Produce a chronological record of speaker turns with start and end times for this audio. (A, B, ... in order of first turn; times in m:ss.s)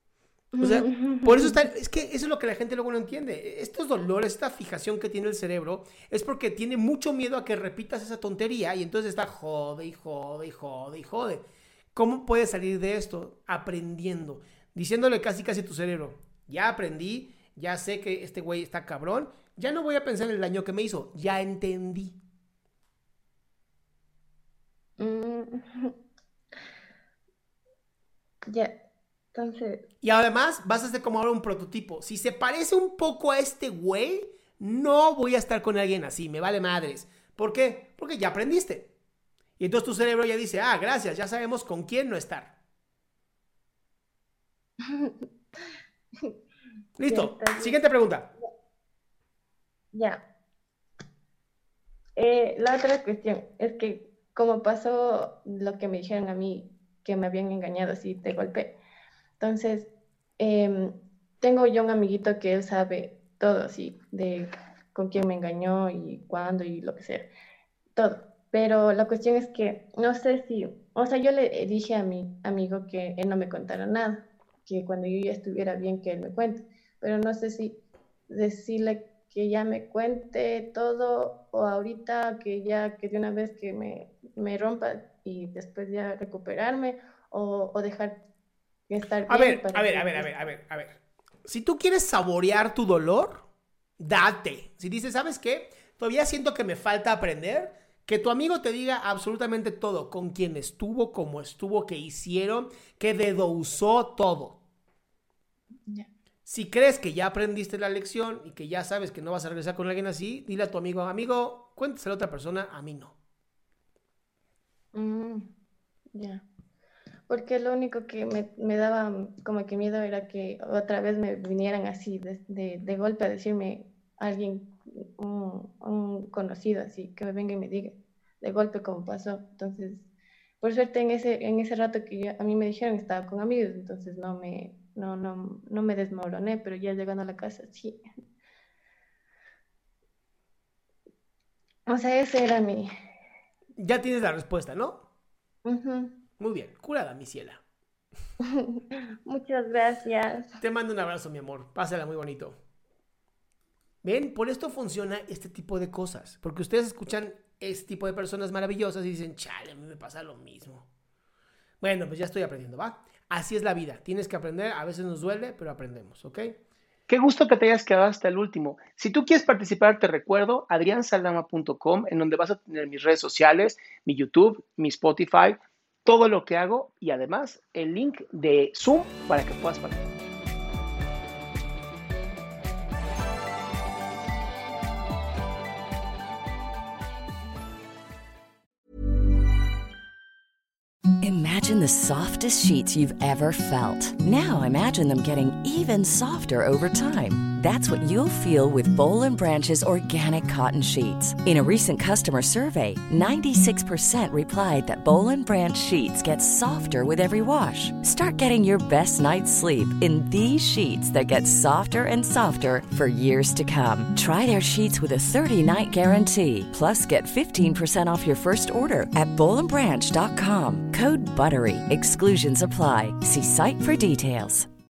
0:00.6-0:01.6 A
0:00.6-0:22.2 B
0:25.0-0:25.9 A
0:28.5-0:28.7 A
0:29.3-0:29.8 A
0:30.0-0:38.9 B
0:39.6-0:42.5 B
0:44.9-0:45.2 A
0:47.0-0:48.3 B
0:47.1-0:47.8 A
0:49.9-0:50.2 A
0:52.2-0:58.7 A
0:59.4-1:07.3 A
1:08.0-1:17.8 A
1:18.3-1:28.2 A
1:28.9-1:30.3 A
1:29.3-1:33.4 B
1:34.0-1:44.6 B
1:46.5-1:53.2 B
1:54.9-1:55.5 A
1:56.2-1:56.4 A
1:57.3-2:10.1 A
2:10.6-2:18.0 A
2:21.9-2:22.9 A
2:23.8-2:25.0 B
2:25.6-2:26.1 A
2:26.4-2:27.6 B
2:28.5-2:30.6 A
2:30.6-2:32.6 B
2:34.0-2:40.9 B
2:41.8-2:46.6 B
2:47.1-3:00.0 C
3:11.2-3:44.7 D